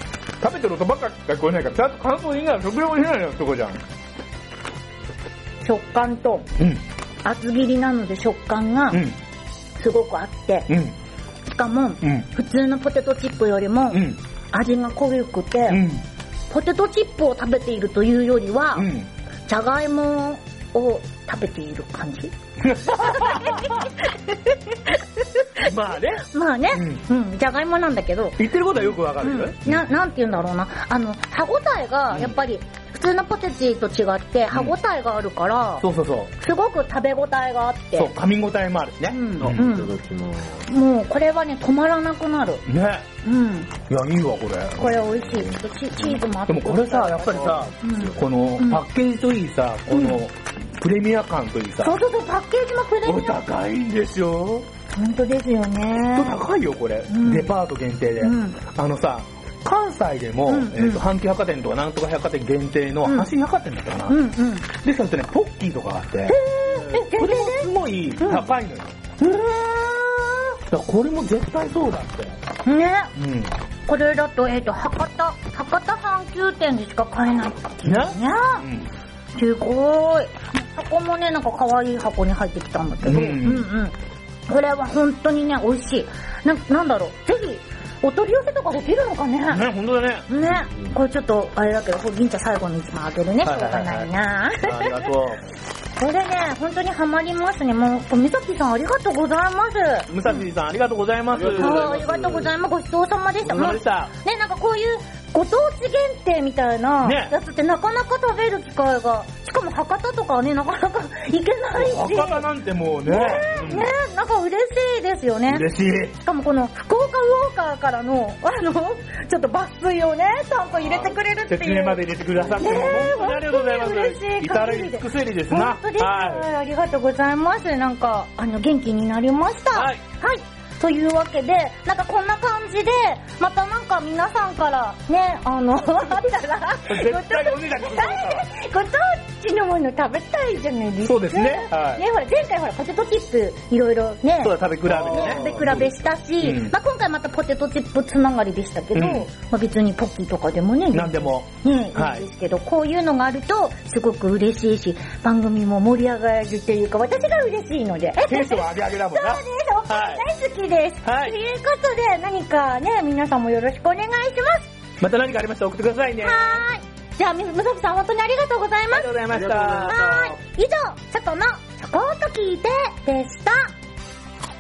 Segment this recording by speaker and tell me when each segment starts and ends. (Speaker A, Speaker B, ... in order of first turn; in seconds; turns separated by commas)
Speaker A: 0.4-3.8, Speaker B: 5.6-6.5, Speaker A: 6.6-6.8, Speaker B: 7.2-9.0, Speaker A: 8.9-9.2, Speaker B: 9.8-10.7, Speaker A: 10.7-10.9, Speaker B: 11.5-15.8, Speaker A: 13.9-14.2, Speaker A: 15.7-16.0, Speaker B: 16.5-18.9, Speaker A: 18.8-19.1, Speaker B: 19.4-35.9, Speaker A: 22.6-23.8, Speaker A: 25.6-27.0, Speaker A: 28.4-29.8, Speaker A: 32.1-32.4, Speaker A: 34.5-34.8, Speaker A: 35.8-36.3, Speaker B: 36.4-38.1, Speaker A: 38.0-39.6, Speaker B: 39.1-39.9, Speaker C: 39.4-40.7, Speaker B: 40.6-42.6, Speaker A: 42.6-43.0, Speaker B: 43.2-43.7, Speaker A: 43.9-45.4, Speaker B: 44.8-48.8, Speaker A: 46.1-52.0, Speaker C: 47.3-48.2, Speaker B: 49.9-50.2, Speaker B: 51.8-53.4, Speaker A: 53.0-54.7, Speaker B: 54.9-56.4, Speaker A: 56.1-64.2, Speaker B: 57.1-57.5, Speaker B: 58.2-58.6, Speaker B: 60.5-61.0, Speaker B: 63.0-63.3, Speaker B: 64.1-64.7, Speaker A: 64.7-68.9, Speaker B: 66.3-68.5, Speaker B: 69.2-70.6, Speaker A: 70.6-72.4, Speaker B: 72.6-73.1, Speaker A: 73.2-73.5, Speaker B: 73.8-78.7, Speaker A: 77.8-78.9, Speaker B: 79.3-83.9, Speaker A: 83.0-83.7, Speaker B: 84.5-89.7, Speaker A: 89.5-90.3, Speaker B: 90.3-95.0, Speaker A: 93.4-95.4, Speaker B: 96.0-100.4, Speaker A: 100.1-102.0, Speaker C: 101.3-102.5, Speaker B: 101.5-112.5, Speaker A: 103.4-104.1, Speaker A: 107.0-107.3, Speaker A: 111.7-113.9, Speaker B: 113.0-122.0, Speaker A: 115.5-116.2, Speaker A: 120.8-126.5, Speaker B: 122.5-164.7, Speaker A: 129.7-130.0, Speaker A: 136.9-138.5, Speaker A: 141.0-142.0, Speaker A: 144.4-146.7, Speaker C: 144.8-145.9, Speaker A: 148.9-149.3, Speaker A: 150.9-152.2, Speaker A: 158.3-160.2, Speaker A: 161.0-161.3, Speaker A: 165.0-166.7, Speaker B: 166.2-169.1, Speaker A: 168.9-170.1, Speaker C: 169.3-170.4, Speaker B: 169.8-173.7